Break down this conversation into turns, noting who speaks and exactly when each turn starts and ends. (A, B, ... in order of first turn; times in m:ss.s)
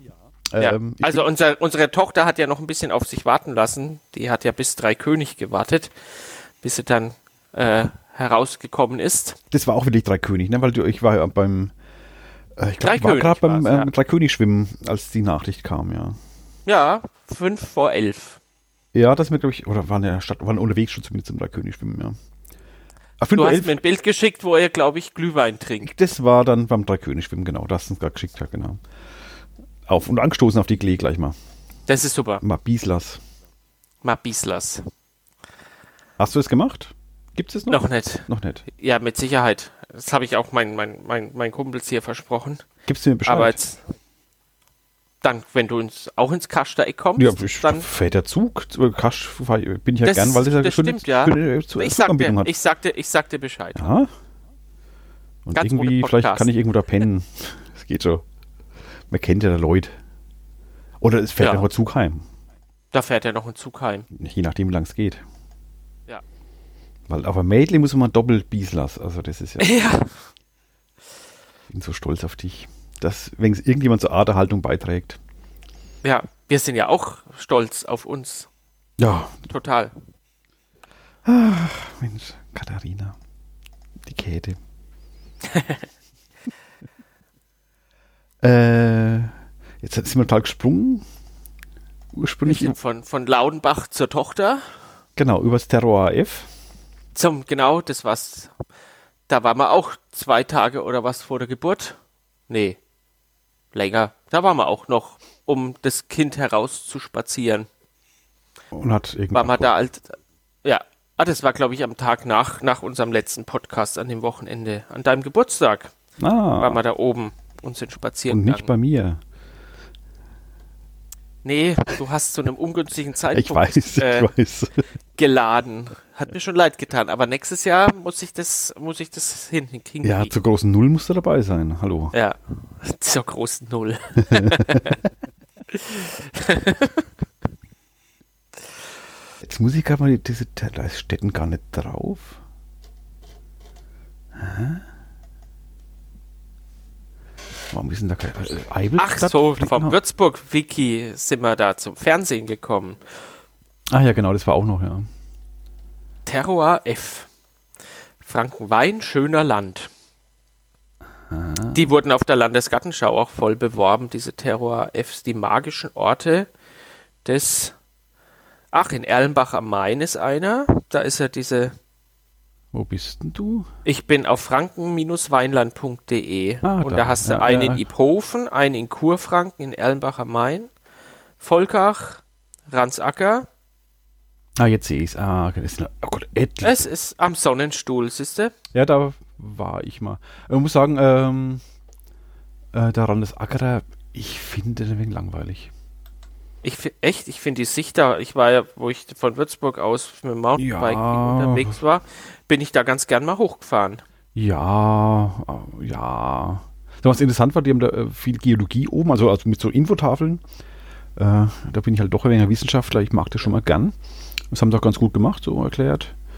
0:00.5-0:01.2 A
0:00.6-0:09.4 B
0:09.5-0:11.7 A
0:12.6-0:16.2 A
0:12.8-0:13.9 B
0:16.6-0:18.4 B
0:18.9-0:22.1 A
0:23.2-0:23.8 A
0:23.3-0:25.9 B
0:25.8-0:28.8 A
0:29.9-0:31.3 A
0:31.9-0:32.4 B
0:32.4-0:33.2 A
0:34.0-0:34.8 B
0:36.2-0:38.6 A
0:37.7-0:42.6 B
0:42.8-0:43.6 A
0:43.2-0:43.8 B
0:45.2-0:47.9 B
0:47.2-0:52.5 A
0:50.0-0:53.9 B
0:53.7-0:54.1 A
0:55.4-0:58.2 A
0:55.5-0:56.5 B
0:59.1-0:59.9 A
1:01.0-1:02.2 A
1:01.4-1:01.7 B
1:02.9-1:04.1 B
1:04.1-1:05.2 A
1:07.1-1:09.7 A
1:09.6-1:10.1 B
1:11.7-1:15.2 A
1:16.0-1:18.5 B
1:19.0-1:19.5 A
1:19.5-1:19.9 B
1:21.2-1:23.2 A
1:24.0-1:24.6 A
1:25.5-1:25.8 B
1:28.4-1:31.0 A
1:32.1-1:32.8 A
1:32.4-1:34.6 B
1:35.2-1:36.5 A
1:37.1-1:38.5 B
1:39.3-1:42.0 B
1:42.5-1:42.8 B
1:43.7-1:47.7 B
1:48.7-1:49.7 A
1:49.3-1:55.9 B
1:56.2-1:56.8 A
1:56.6-1:58.7 B
1:58.3-1:59.2 A
2:01.4-2:04.3 B
2:03.3-2:04.8 A
2:05.2-2:10.3 B
2:10.0-2:12.1 A
2:12.1-2:15.0 B
2:14.3-2:14.9 A
2:15.7-2:17.0 B
2:19.4-2:22.4 A
2:24.3-2:24.8 A
2:27.7-2:30.0 A
2:29.0-2:33.0 B
2:33.9-2:35.0 A
2:36.2-2:37.3 B
2:38.2-2:39.9 B
2:41.3-2:41.8 A
2:41.7-2:46.5 B
2:47.2-2:47.7 B
2:48.7-2:51.7 B
2:52.7-2:53.7 A
2:53.8-3:00.7 B
2:56.6-2:57.8 A
3:01.4-3:03.5 B
3:04.6-3:06.8 A
3:06.6-3:08.5 B
3:08.7-3:11.6 A
3:12.7-3:15.7 A
3:16.6-3:24.0 B
3:20.6-3:21.8 A
3:24.3-3:30.4 A
3:31.2-3:34.0 A
3:34.5-3:36.1 A